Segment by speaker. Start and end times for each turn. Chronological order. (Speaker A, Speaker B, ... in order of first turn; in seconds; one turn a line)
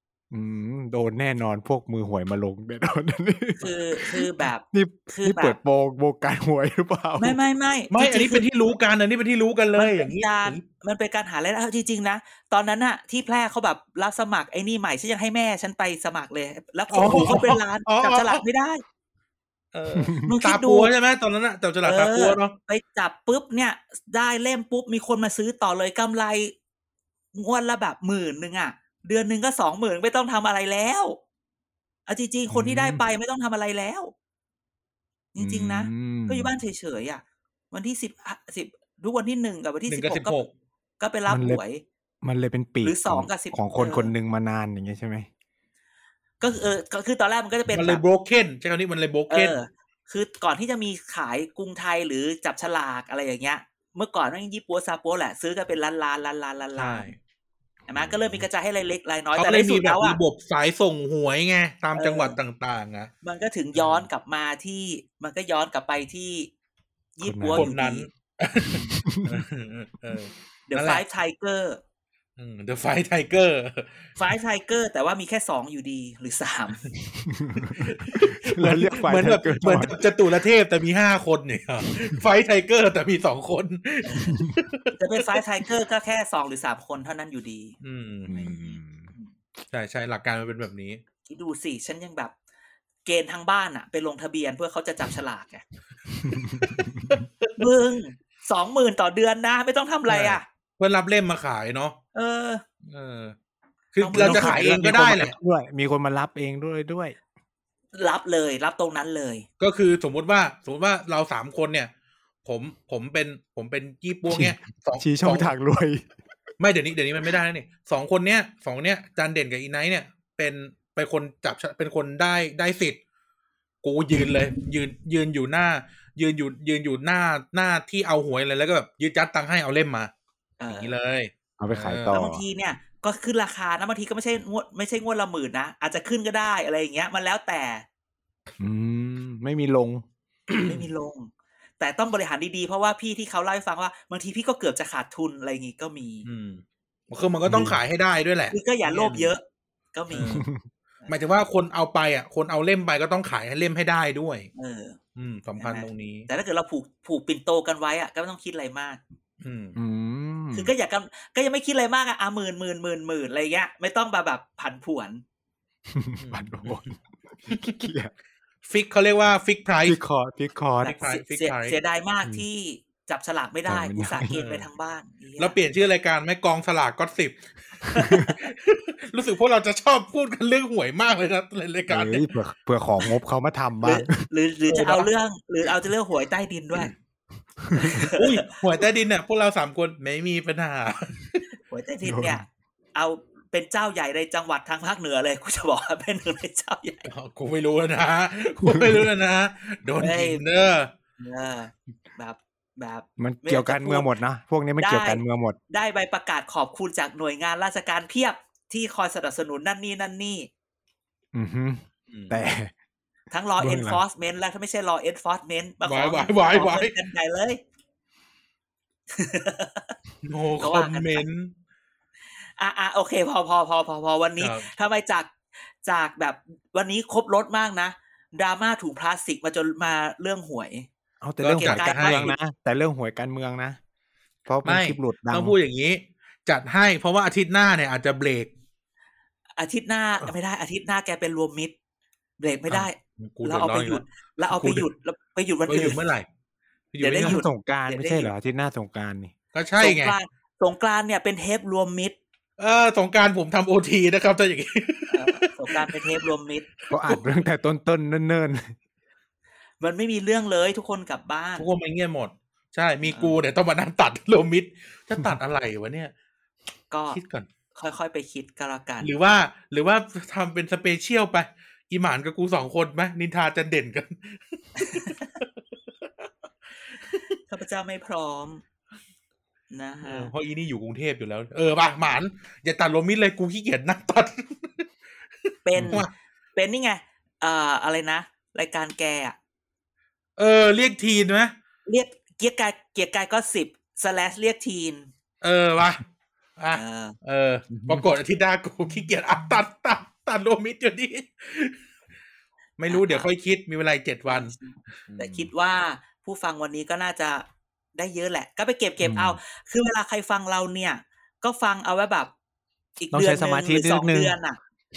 Speaker A: 0.3-7.4
Speaker B: 3.6-5.6
Speaker B: 7.2-8.4
Speaker C: 7.9-10.6
Speaker B: 9.8-18.8
Speaker C: 16.9-18.4
Speaker C: 19.7-22.5
Speaker A: 20.0-20.3
Speaker B: 20.2-20.9
Speaker B: 21.8-26.5
Speaker B: 27.3-31.2
Speaker B: 32.1-34.1
Speaker A: 32.5-33.0
Speaker B: 35.3-40.4
Speaker A: 35.4-36.5
Speaker C: 39.9-40.5
Speaker B: 41.0-41.8
Speaker A: 41.3-41.6
Speaker A: 42.2-45.3
Speaker B: 42.8-44.1
Speaker B: 46.4-48.0
Speaker C: 47.7-49.6
Speaker B: 49.3-57.1
Speaker C: 56.8-57.2
Speaker B: 57.9-60.2
Speaker A: 57.9-58.4
Speaker C: 59.4-63.1
Speaker B: 61.9-62.4
Speaker B: 63.2-66.5
Speaker C: 63.7-64.1
Speaker B: 67.2-68.1
Speaker A: 67.2-67.7
Speaker C: 67.5-71.0
Speaker A: 69.0-69.4
Speaker B: 70.7-71.8
Speaker C: 72.4-74.1
Speaker B: 74.2-76.9
Speaker A: 77.0-79.9
Speaker C: 77.6-85.4
Speaker B: 84.0-84.4
Speaker B: 85.0-87.8
Speaker C: 87.8-88.3
Speaker A: 88.3-89.1
Speaker B: 88.3-89.3
Speaker C: 89.7-91.0
Speaker B: 91.3-92.3
Speaker B: 93.0-95.6
Speaker A: 96.3-97.1
Speaker C: 96.4-97.6
Speaker B: 97.6-100.4
Speaker C: 100.1-102.0
Speaker B: 102.1-102.6
Speaker C: 102.8-103.3
Speaker C: 103.9-105.3
Speaker B: 104.0-104.6
Speaker A: 104.2-107.2
Speaker B: 107.9-109.5
Speaker C: 109.6-111.9
Speaker C: 112.4-115.5
Speaker A: 114.3-116.1
Speaker C: 116.6-123.0
Speaker C: 123.8-130.1
Speaker B: 130.6-130.9
Speaker C: 130.7-132.2
Speaker A: 131.6-132.4
Speaker B: 132.1-137.8
Speaker A: 138.6-140.0
Speaker C: 140.5-140.8
Speaker B: 140.6-146.3
Speaker C: 146.2-149.3
Speaker A: 147.4-147.8
Speaker B: 148.5-149.4
Speaker B: 149.9-150.4
Speaker C: 150.1-150.5
Speaker A: 150.3-150.7
Speaker C: 151.1-154.5
Speaker B: 154.5-155.0
Speaker C: 155.2-156.3
Speaker B: 155.6-159.0
Speaker C: 159.4-159.8
Speaker A: 159.8-160.7
Speaker B: 160.5-165.2
Speaker A: 165.9-168.1
Speaker C: 166.2-166.9
Speaker C: 168.6-170.0
Speaker A: 169.8-170.9
Speaker B: 170.8-175.6
Speaker C: 170.8-171.8
Speaker A: 173.7-174.4
Speaker C: 174.3-174.7
Speaker C: 175.4-182.3
Speaker B: 177.9-178.4
Speaker A: 177.9-178.3
Speaker A: 181.9-184.2
Speaker B: 183.8-186.9
Speaker C: 184.7-185.1
Speaker A: 187.6-188.1
Speaker B: 187.7-188.4
Speaker C: 188.1-191.5
Speaker B: 191.7-197.1
Speaker A: 192.0-192.4
Speaker C: 197.1-200.9
Speaker A: 198.6-199.1
Speaker B: 200.0-200.4
Speaker B: 201.2-204.2
Speaker A: 203.2-205.6
Speaker B: 204.8-210.5
Speaker A: 211.3-212.7
Speaker C: 212.1-212.4
Speaker B: 213.3-217.6
Speaker A: 213.6-214.0
Speaker C: 215.8-216.9
Speaker B: 219.1-219.9
Speaker C: 220.2-221.5
Speaker B: 220.6-221.2
Speaker B: 222.6-230.9
Speaker C: 224.4-224.7
Speaker A: 231.2-233.8
Speaker C: 231.4-232.3
Speaker B: 231.6-232.3
Speaker A: 234.4-235.6
Speaker C: 234.6-238.5
Speaker B: 239.6-241.7
Speaker B: 242.4-246.0
Speaker C: 242.7-244.9
Speaker C: 245.7-246.2
Speaker C: 246.9-247.4
Speaker B: 247.0-248.3
Speaker A: 247.2-249.3
Speaker C: 249.5-250.2
Speaker B: 249.8-252.2
Speaker C: 252.6-255.9
Speaker B: 255.1-256.7
Speaker C: 256.9-257.3
Speaker A: 256.9-258.7
Speaker B: 259.8-261.6
Speaker C: 261.6-266.1
Speaker B: 263.0-263.4
Speaker B: 266.9-267.2
Speaker C: 267.1-267.4
Speaker B: 267.7-269.1
Speaker C: 269.0-275.4
Speaker B: 274.8-275.3
Speaker C: 277.0-277.3
Speaker B: 277.5-278.6
Speaker B: 279.7-280.3
Speaker C: 280.0-284.9
Speaker B: 285.6-289.4
Speaker A: 285.8-286.0
Speaker C: 285.8-286.1
Speaker C: 290.4-291.5
Speaker B: 291.9-295.1
Speaker C: 295.4-296.0
Speaker C: 296.6-301.8
Speaker B: 296.7-297.2
Speaker A: 297.7-298.0
Speaker C: 302.8-304.5
Speaker B: 302.9-303.3
Speaker B: 304.3-312.3
Speaker C: 305.1-305.5
Speaker A: 309.0-309.4
Speaker B: 313.0-314.6
Speaker A: 313.1-314.4